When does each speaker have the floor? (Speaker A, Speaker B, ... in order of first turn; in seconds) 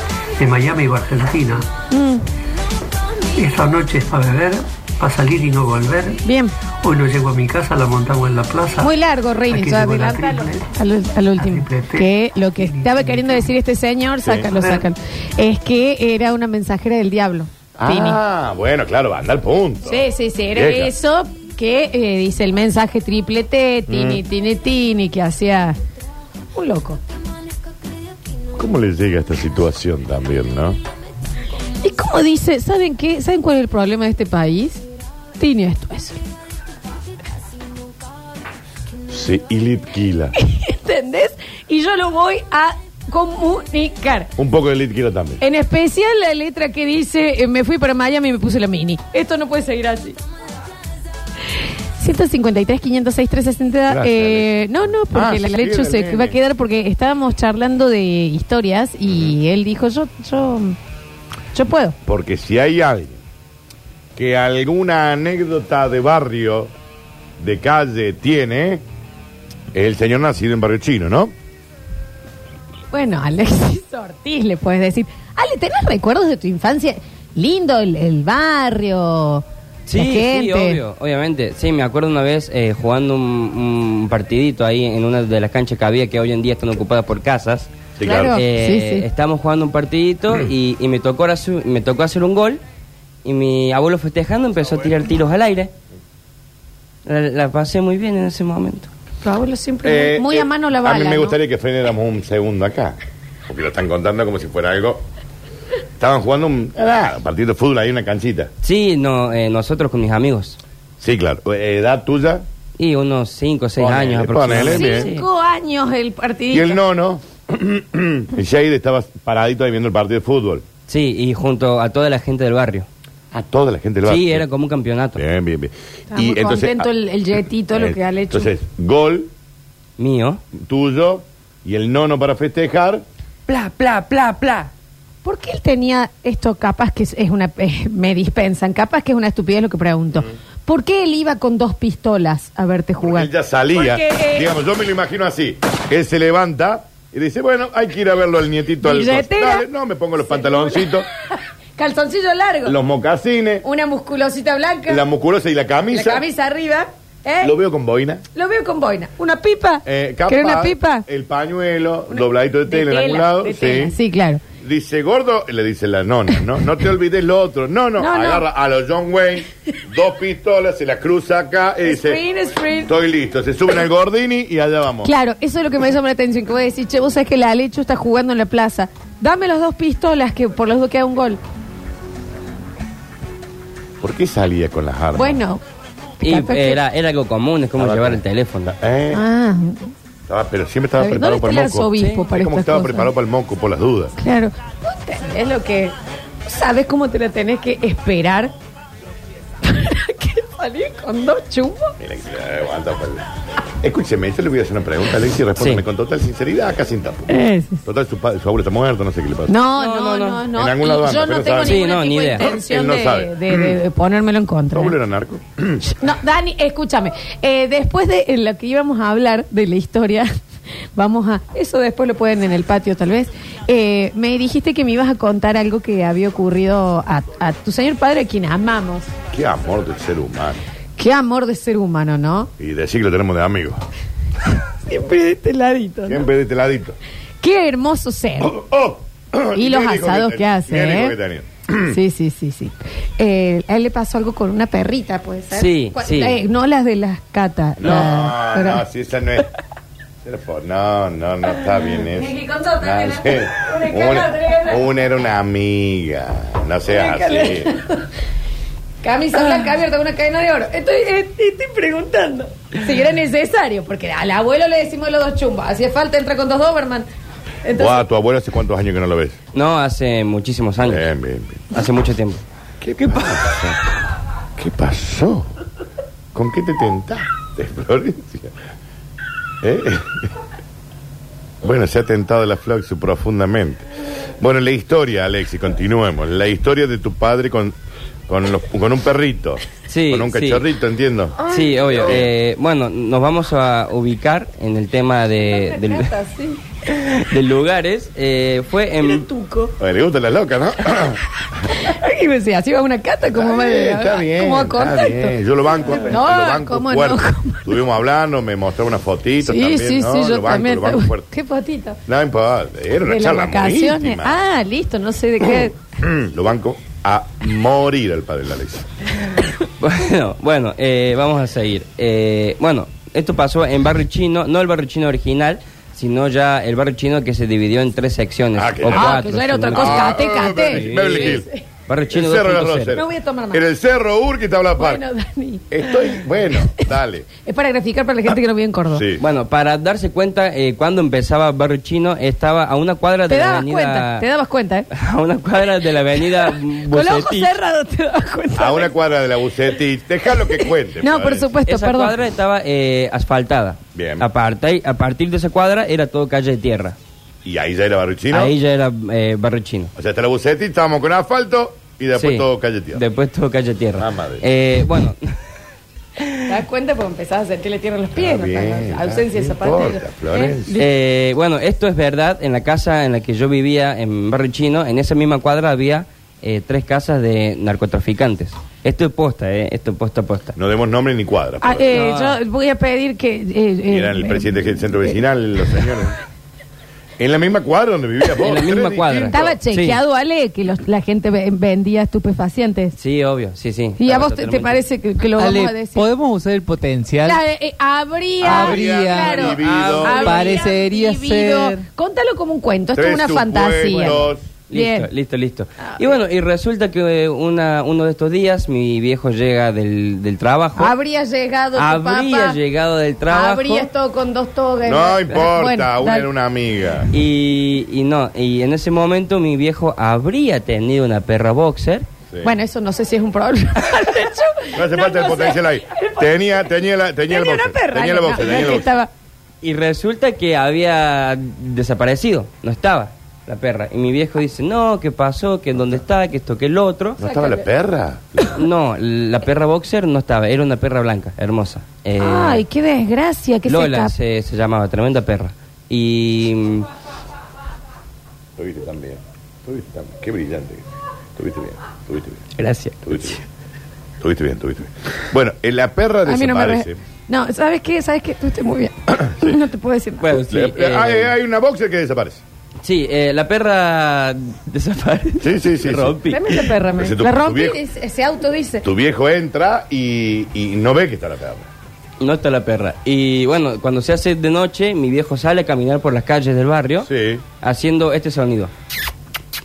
Speaker A: 0.4-1.7, 3.4-6.2, 6.8-8.9, 9.5-10.7, 11.4-13.5, 14.4-14.9
Speaker B: 1.9-2.2, 6.2-6.5, 8.8-18.2, 19.9-25.8, 26.5-27.0, 31.8-34.8, 35.4-36.2, 40.4-44.3, 45.4-50.2, 52.0-60.8, 61.5-62.0, 72.9-80.8, 88.0-89.0, 99.2-101.4, 114.6-116.8, 126.1-128.5, 135.2-144.5, 148.8-149.7, 150.2-150.9, 151.8-152.8, 153.6-155.0, 155.9-157.5, 158.3-161.1, 162.1-164.4, 168.0-168.4, 171.8-172.9, 175.0-181.4, 185.2-185.6, 186.2-186.8, 189.1-189.9, 191.0-193.1, 194.2-195.9, 196.5-198.5, 199.6-201.9, 207.3-207.8, 209.5-215.0, 215.9-220.3, 220.9-229.1, 231.0-232.5, 234.9-236.3, 237.4-238.6, 239.6-241.2, 241.9-248.8, 252.1-254.8, 256.9-258.0, 259.0-267.1, 267.6-268.0, 291.4-292.1, 295.4-296.6, 299.1-299.7, 301.7-305.4, 305.9-307.7, 309.4-312.0, 313.1-315.8, 328.9-331.6, 332.9-333.6, 334.8-336.9, 337.4-339.1, 343.3-344.9, 346.2-348.9, 350.6-352.1, 366.5-370.8, 381.6-385.2, 389.3-393.0, 394.0-396.1, 397.2-405.1, 405.8-406.1, 410.8-412.6, 413.3-416.3, 422.4-426.6, 427.3-429.1, 437.2-437.6, 442.2-444.1, 456.2-460.4, 466.3-468.9
Speaker C: 14.2-14.5, 17.8-20.9, 23.9-24.2, 28.6-30.8, 39.1-40.3, 44.4-45.4, 53.9-54.5, 55.1-56.4, 59.1-59.4, 62.0-63.2, 64.2-66.7, 67.4-68.8, 69.7-71.3, 88.0-88.4, 99.8-105.0, 106.0-108.5, 111.0-112.5, 113.8-115.1, 116.5-120.7, 123.3-124.5, 125.2-126.9, 127.7-129.3, 130.6-133.0, 143.0-151.1, 152.7-153.7, 154.9-156.2, 157.4-158.2, 159.8-164.0, 164.6-172.2, 172.8-175.1, 184.0-185.4, 187.8-189.2, 190.3-194.2, 202.0-203.3, 203.8-209.5, 210.6-211.8, 212.4-213.8, 214.7-215.8, 229.3-230.6, 232.6-233.8, 236.1-237.0, 238.4-242.0, 247.8-249.5, 250.2-257.7, 267.8-269.4, 270.8-271.7, 272.8-273.9, 274.6-275.5, 276.3-278.5, 279.6-280.3, 281.6-283.9, 284.4-287.8, 288.3-291.4, 292.0-292.3, 299.8-301.2, 303.3-311.3, 312.1-314.4, 316.0-318.9, 328.6-331.4, 332.1-335.0, 335.7-337.3, 338.9-339.2, 348.6-351.5, 353.9-354.2, 357.4-358.6, 360.0-363.0, 364.0-364.4, 368.2-370.8, 380.6-382.1, 383.9-386.2, 387.2-389.6, 398.4-400.4, 402.9-404.4, 414.8-417.1, 424.8-428.9, 437.2-438.6, 448.6-450.9, 451.4-452.5, 453.1-453.4, 454.2-457.0, 459.1-459.6, 460.5-462.4, 465.4-467.8, 468.8-471.7, 477.0-477.4
Speaker D: 79.9-87.7, 88.3-92.6, 93.2-95.7, 97.1-98.9, 108.6-110.6, 112.8-115.3, 120.9-122.9, 124.1-125.2, 130.0-130.4, 133.5-134.7, 186.2-188.7, 209.8-210.4, 211.7-212.5, 245.5-246.4, 269.5-271.1, 271.7-272.4, 289.9-290.6, 291.5-296.1, 296.9-299.3, 319.8-330.1, 330.7-331.4, 331.9-332.9, 339.2-344.3, 344.9-347.6, 351.7-357.0, 358.3-359.9, 362.2-365.3, 370.8-380.6, 381.9-382.4, 388.4-390.0, 393.0-394.8, 399.6-400.5, 404.7-410.9, 411.8-413.9, 417.1-422.1, 429.6-437.2, 438.5-442.6, 443.7-446.9, 452.6-453.4, 460.2-461.3, 462.8-466.5, 472.2-477.1, 477.6-478.7
Speaker E: 395.4-397.4, 398.4-399.4, 400.1-401.8